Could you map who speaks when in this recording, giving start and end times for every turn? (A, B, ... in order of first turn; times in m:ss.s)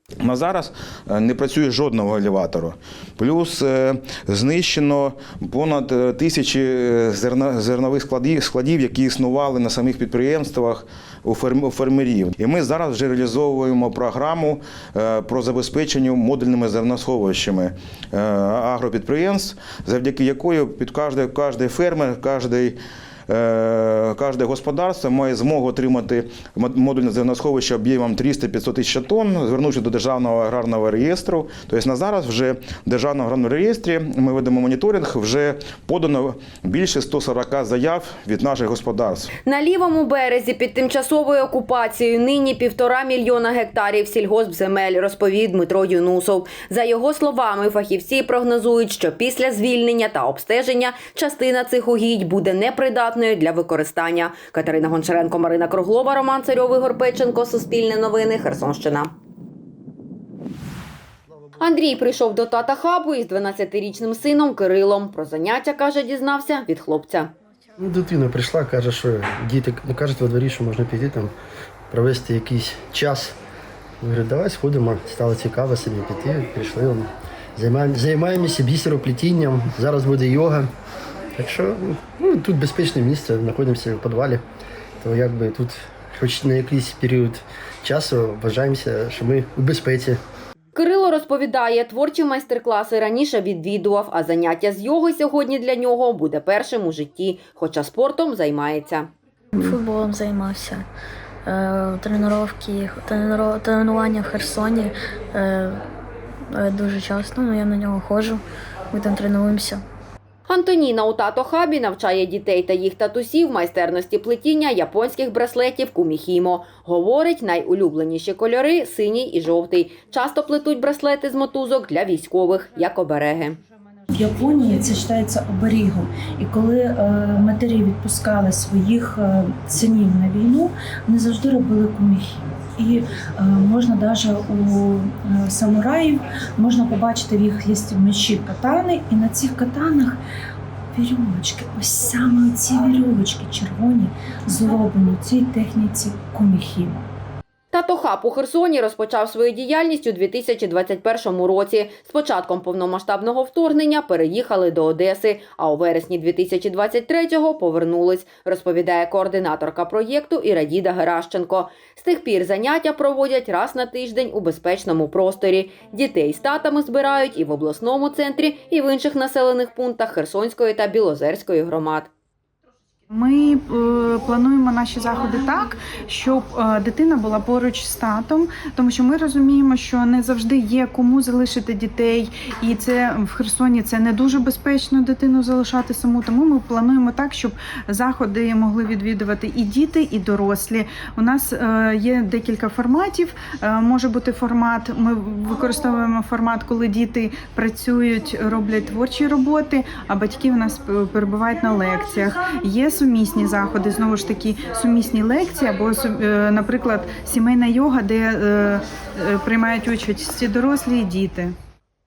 0:00.2-0:22.8 A
0:23.3-0:39.3 A
0:39.4-0:59.1 B
1:01.6-1:07.3 B
1:07.8-1:11.3 C
1:11.9-1:13.4 C
1:14.0-1:20.7 C
1:21.4-1:24.4 C
1:25.0-1:30.2 C
1:30.8-1:39.1 B
1:39.5-1:40.8 D
1:41.5-1:45.8 D
1:46.6-1:48.4 D
1:48.9-1:49.8 D
1:50.5-2:03.6 B
2:04.1-2:20.2 E
2:20.9-2:27.1 E
2:27.7-2:52.1 B
2:53.1-3:31.5 F